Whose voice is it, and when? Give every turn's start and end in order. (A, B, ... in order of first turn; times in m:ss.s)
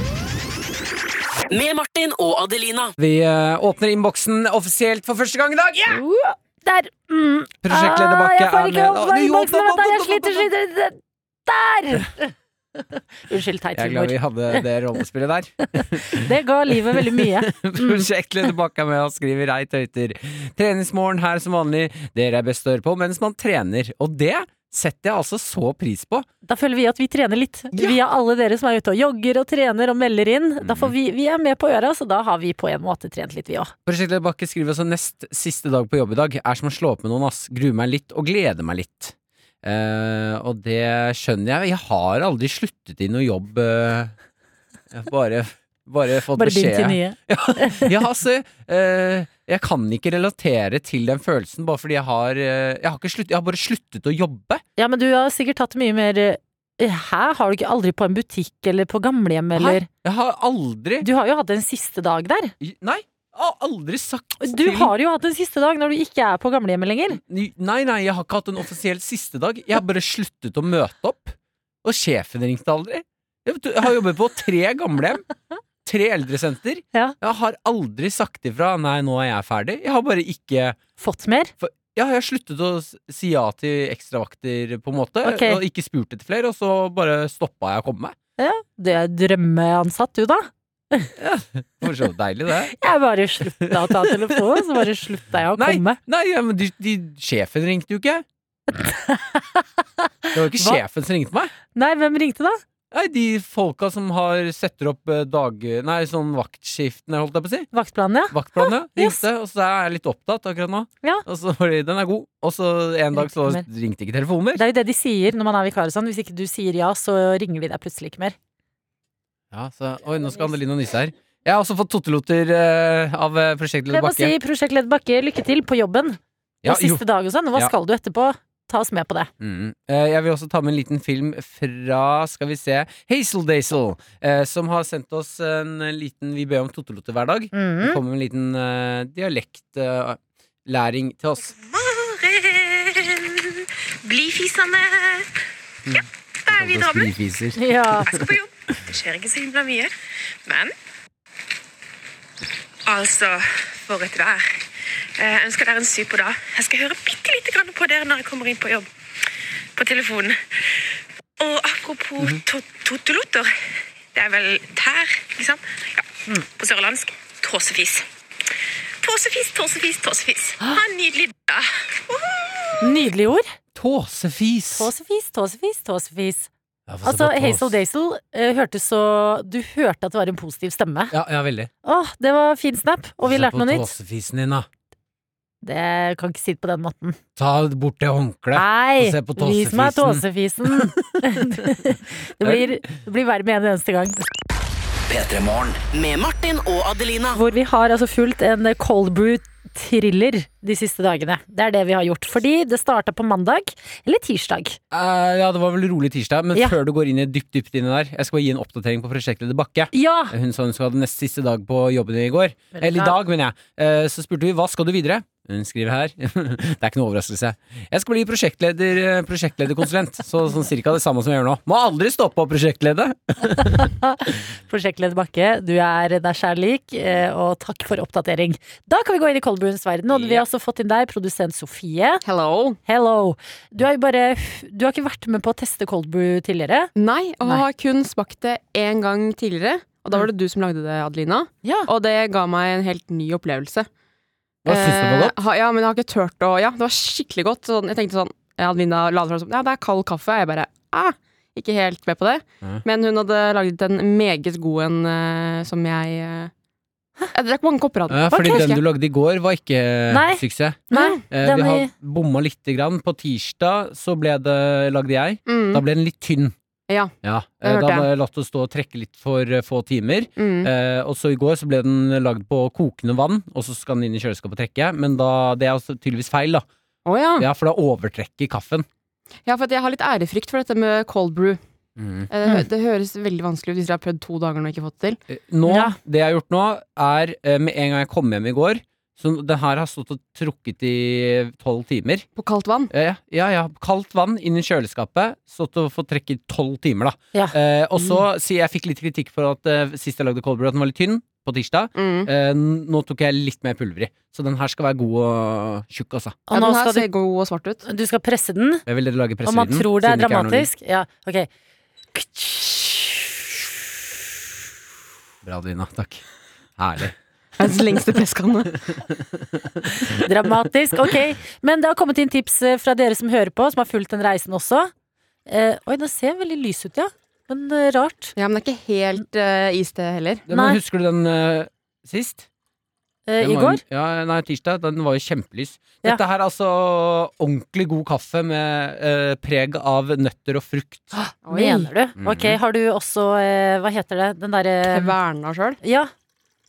0:01.5-0:03.0 A
0:03.0-0:06.0 B
0:05.9-0:12.3 C
0:07.6-0:10.5 B
0:13.3-0:14.6 C
0:13.7-0:26.3 B
0:16.1-0:18.1 C
0:26.4-0:33.7 C
0:30.6-0:30.9 B
0:33.9-0:44.2 B
0:44.9-0:54.6 B
0:46.4-0:47.9 C
0:54.8-0:59.9 C
0:59.6-1:01.1 B
1:01.0-1:02.5 C
1:02.6-1:04.9 B
1:04.4-1:07.2 C
1:07.1-1:15.2 B
1:15.8-1:20.8 B
1:21.0-1:21.5 C
1:21.6-1:28.2 B
1:25.2-1:25.6 C
1:28.4-1:31.1 C
1:31.2-1:32.7 B
1:32.7-1:36.0 C
1:33.6-1:34.8 B
1:35.6-1:38.2 B
1:38.7-1:40.8 C
1:40.3-1:41.5 B
1:41.8-1:42.6 C
1:42.9-1:47.7 B
1:47.7-1:49.2 C
1:48.3-1:54.6 B
1:53.2-1:53.6 C
1:54.6-1:58.4 C
1:59.5-2:04.3 B
2:03.9-2:09.3 C
2:06.6-2:07.0 B
2:09.4-2:21.5 B
2:17.5-2:18.0 C
2:21.5-2:25.3 D
2:25.9-2:28.3 B
2:25.9-2:27.1 D
2:27.6-2:28.1 C
2:28.0-2:29.9 D
2:30.4-2:30.7 D
2:32.9-2:34.7 D
2:35.2-2:38.9 D
2:39.8-2:52.9 D
2:52.8-2:53.6 C
2:53.8-2:54.9 B
2:54.7-2:56.5 C
2:56.9-2:57.8 B
2:57.0-3:01.1 C
3:01.1-3:01.7 B
3:01.8-3:03.9 C
3:03.2-3:04.7 B
3:05.6-3:07.2 C
3:07.4-3:11.8 B
3:08.5-3:14.2 C
3:12.4-3:12.9 B
3:15.1-3:17.4 A
3:17.4-3:24.8 C
3:24.9-3:43.9 B
3:29.9-3:30.3 C
3:32.8-3:33.2 C
3:43.6-3:52.2 C
3:50.1-3:50.4 B
3:52.2-3:52.8 E
3:52.9-3:56.9 C
3:57.0-4:03.9 E
4:04.6-4:05.4 B
4:04.7-4:16.5 E
4:17.3-4:18.6 E
4:18.1-4:26.6 B
4:18.3-4:18.8 C
4:20.1-4:21.9 C
4:20.9-4:21.2 E
4:25.5-4:25.8 E
4:27.2-4:36.7 B
4:27.6-4:28.1 E
4:30.4-4:30.7 E
4:37.1-4:37.5 E
4:37.4-4:38.9 B
4:39.5-4:41.6 E
4:42.0-4:42.3 B
4:42.3-4:45.2 E
4:45.3-4:52.3 B
4:45.7-4:46.0 C
4:52.4-4:52.9 E
4:52.9-5:06.4 B
4:57.3-4:58.2 C
5:02.0-5:02.3 E
5:06.5-5:07.1 C
5:06.5-5:07.8 E
5:07.9-5:08.8 C
5:08.9-5:10.7 B
5:09.4-5:11.5 C
5:12.1-5:13.4 C
5:15.4-5:16.2 B
5:16.8-5:17.2 B
5:17.6-5:18.8 E
5:18.9-5:20.5 B
5:20.2-5:24.9 C
5:25.5-5:28.3 C
5:28.4-5:30.4 E
5:30.5-5:32.5 B
5:30.5-5:30.8 C
5:33.3-5:33.8 C
5:33.4-5:41.1 B
5:41.1-5:45.1 C
5:41.4-5:41.9 E
5:42.2-5:42.6 B
5:44.9-5:45.8 E
5:45.8-5:46.1 C